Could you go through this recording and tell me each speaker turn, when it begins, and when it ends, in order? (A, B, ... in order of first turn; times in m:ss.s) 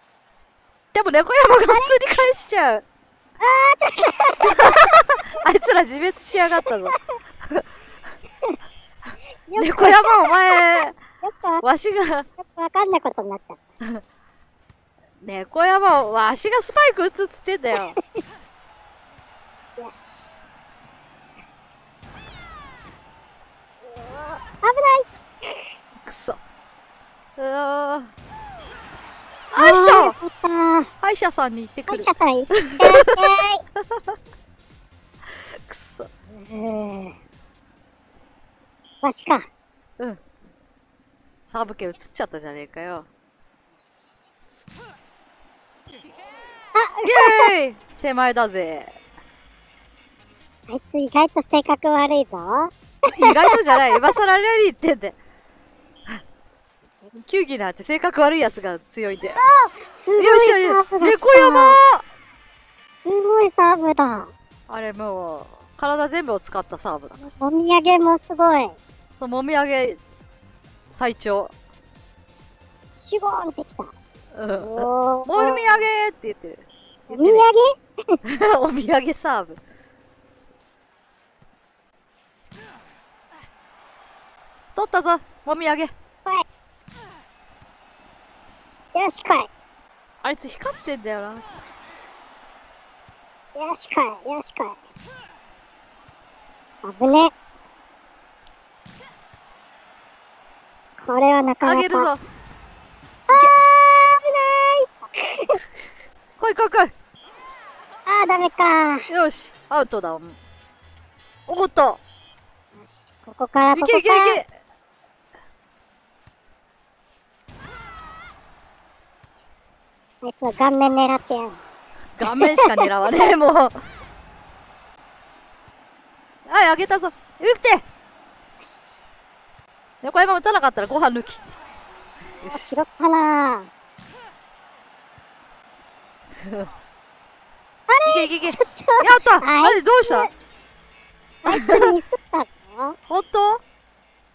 0:00.9-0:02.8 A
0:01.7-0:02.2 B
0:03.4-0:05.0 B
0:04.4-0:07.0 A
0:09.5-0:11.6 B
0:09.6-0:11.0 A
0:11.6-0:12.3 A
0:12.4-0:13.6 B
0:15.2-0:18.0 A
0:19.8-0:20.4 B
0:23.9-0:25.7 B
0:26.0-0:26.4 A
0:27.4-0:28.1 A
0:29.5-0:30.2 A
0:29.6-0:30.9 B
0:31.0-0:33.2 A
0:31.9-0:33.6 B
0:33.8-0:34.2 A
0:35.3-0:36.1 A
0:36.4-0:37.2 B
0:39.0-0:39.5 B
0:41.5-0:43.1 A
0:43.8-0:44.3 B
0:46.8-0:47.5 B
0:47.0-0:48.9 A
0:50.7-0:54.0 B
0:53.1-0:55.2 A
0:57.2-0:59.4 A
0:59.4-1:01.8 B
1:00.2-1:02.0 A
1:03.0-1:04.3 B
1:04.7-1:07.2 A
1:07.2-1:08.8 B
1:09.2-1:10.0 A
1:10.9-1:11.5 A
1:13.0-1:13.9 B
1:14.3-1:17.4 A
1:14.6-1:15.9 B
1:17.1-1:18.2 B
1:18.2-1:19.6 A
1:24.8-1:25.9 A
1:26.0-1:26.4 B
1:29.0-1:29.5 B
1:30.2-1:31.4 A
1:33.6-1:34.8 B
1:36.8-1:37.3 B
1:41.0-1:42.1 B
1:41.6-1:42.2 A
1:43.3-1:45.6 B
1:43.3-1:43.6 A
1:46.4-1:46.9 A
1:48.1-1:49.1 B
1:49.1-1:50.4 A
1:51.5-1:52.0 A
1:52.8-1:54.4 B
1:53.7-1:54.5 A
2:00.2-2:01.6 B
2:02.2-2:03.8 A
2:02.3-2:02.7 B
2:06.5-2:07.8 A
2:08.6-2:09.1 B
2:10.0-2:11.4 A
2:12.4-2:12.7 A
2:12.4-2:13.7 B
2:16.4-2:16.7 A
2:17.9-2:20.3 B
2:18.1-2:20.3 A
2:21.4-2:23.0 B
2:21.5-2:21.9 A
2:23.1-2:23.6 A